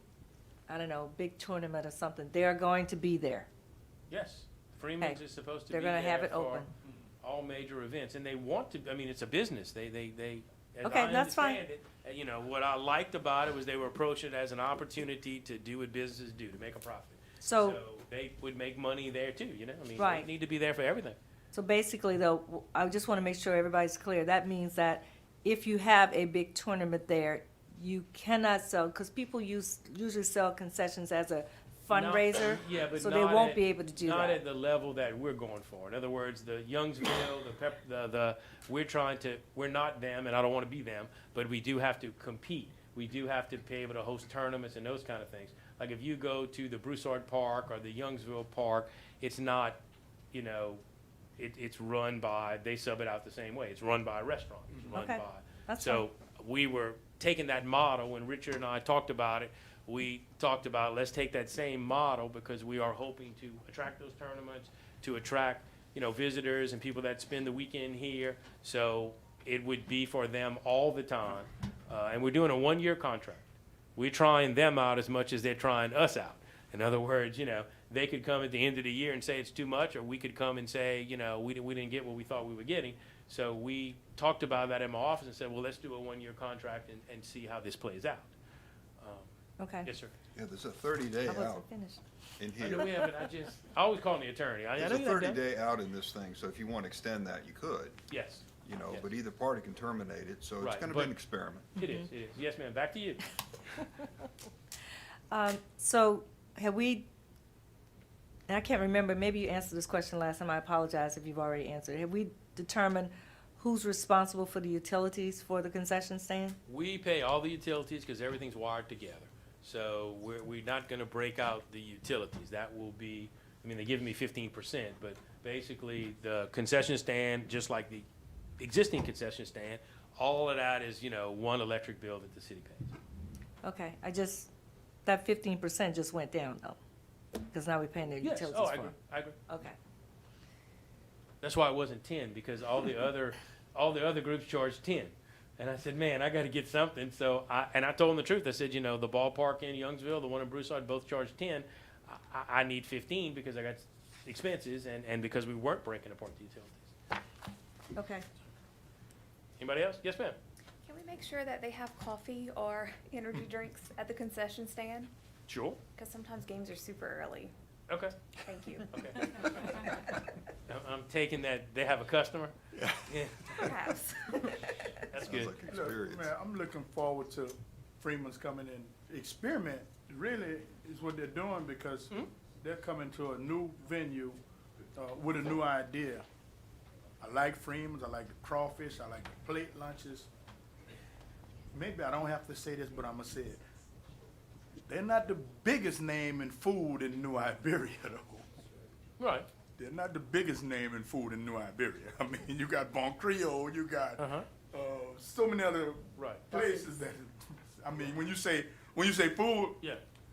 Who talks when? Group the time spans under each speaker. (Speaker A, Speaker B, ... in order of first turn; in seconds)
Speaker A: 0.7-3.5, 5.0-6.7, 10.8-11.6, 17.4-17.8, 20.0-20.3, 21.5-34.4, 54.9-56.0, 89.6-89.9, 91.2-92.0, 92.7-93.1, 105.3-107.1, 108.5-116.6, 133.6-134.5, 135.1-136.8, 137.5-138.9, 139.5-139.8, 157.9-158.2
Speaker B: 4.1-6.7, 7.2-21.2, 31.9-49.8, 50.3-50.8, 51.4-88.3, 89.0-89.3, 89.8-90.1, 92.6-95.4, 98.1-99.1, 100.6-101.1, 101.8-103.2, 116.7-128.1, 128.6-132.9, 138.2-139.4, 141.4-156.9, 159.6-160.4, 165.5-165.8, 167.9-168.2, 168.9-169.7, 170.7-172.5, 173.1-173.7, 175.1-175.5, 199.2-199.5, 204.2-204.5, 206.2-206.6
Speaker C: 90.3-91.7, 92.4-92.9, 94.8-98.0, 98.6-101.7, 175.2-176.3
Speaker D: 160.8-165.1, 166.0-167.5, 168.4-168.9, 173.5-174.7
Speaker E: 175.7-184.4, 185.0-186.2, 187.2-190.3, 191.7-193.6, 194.9-198.4, 199.8-209.8